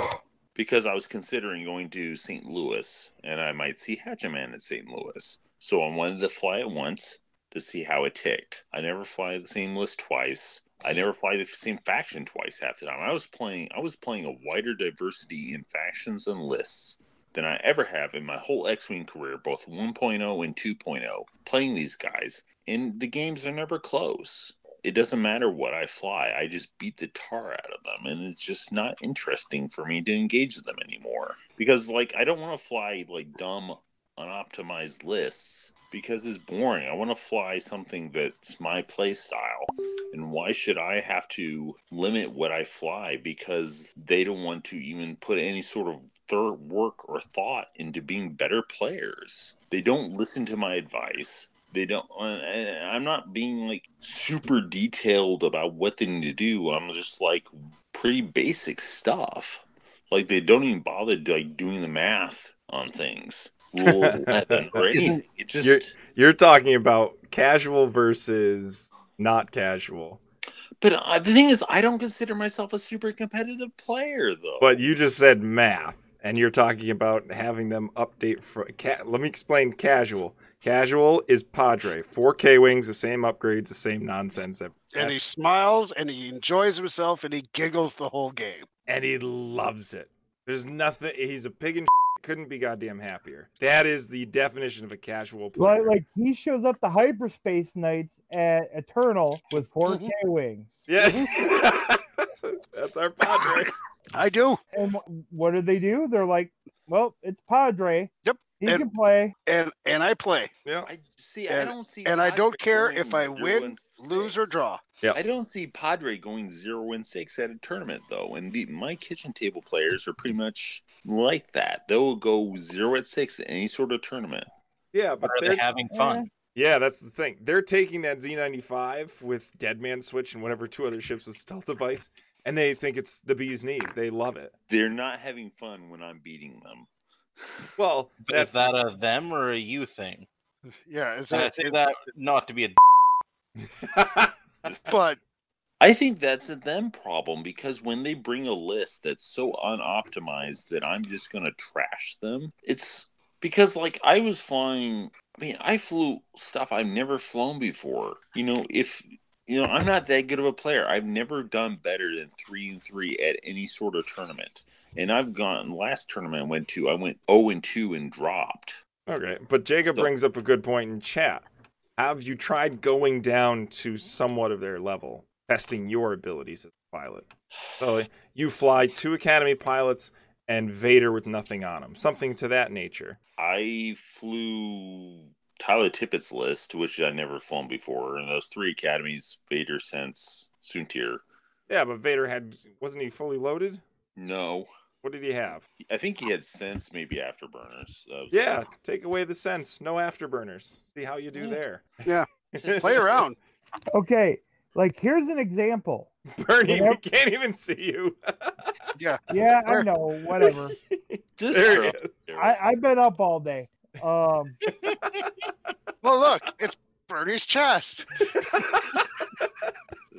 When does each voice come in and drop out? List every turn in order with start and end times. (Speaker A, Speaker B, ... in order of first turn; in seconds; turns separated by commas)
Speaker A: 0.6-66.0, Speaker B: 63.8-70.2, Speaker A: 70.8-74.8, Speaker B: 74.6-85.2, Speaker C: 84.9-88.7, Speaker B: 88.9-95.9, Speaker D: 95.6-100.7, Speaker C: 99.9-100.1, Speaker B: 100.9-103.8, Speaker C: 104.2-104.6, Speaker D: 104.7-109.3, Speaker C: 108.2-108.9, Speaker C: 109.5-110.5, Speaker B: 110.7-110.9, Speaker A: 110.9-124.5, Speaker C: 111.5-114.8, Speaker B: 124.9-125.7, Speaker E: 125.2-126.3, Speaker D: 125.9-126.3, Speaker B: 126.6-134.5, Speaker A: 134.7-136.9, Speaker B: 137.8-138.6, Speaker E: 138.3-140.3, Speaker C: 140.9-141.9, Speaker E: 141.3-142.8, Speaker B: 143.8-144.3, Speaker C: 144.9-145.2, Speaker A: 145.8-168.8, Speaker B: 169.1-171.4, Speaker B: 172.0-177.3, Speaker B: 177.8-183.2, Speaker A: 183.4-191.2, Speaker B: 191.7-193.8, Speaker A: 194.2-194.7, Speaker B: 195.0-195.7, Speaker A: 195.8-198.6, Speaker B: 198.3-202.0, Speaker B: 202.6-203.2, Speaker A: 202.6-203.2, Speaker C: 202.8-203.3, Speaker D: 203.9-206.1, Speaker B: 206.3-208.6, Speaker D: 206.7-207.0, Speaker C: 209.0-209.9, Speaker D: 209.3-210.8, Speaker B: 210.8-212.2, Speaker A: 211.4-212.6, Speaker D: 212.4-214.6, Speaker B: 214.7-215.3, Speaker C: 216.0-218.1, Speaker B: 218.4-219.1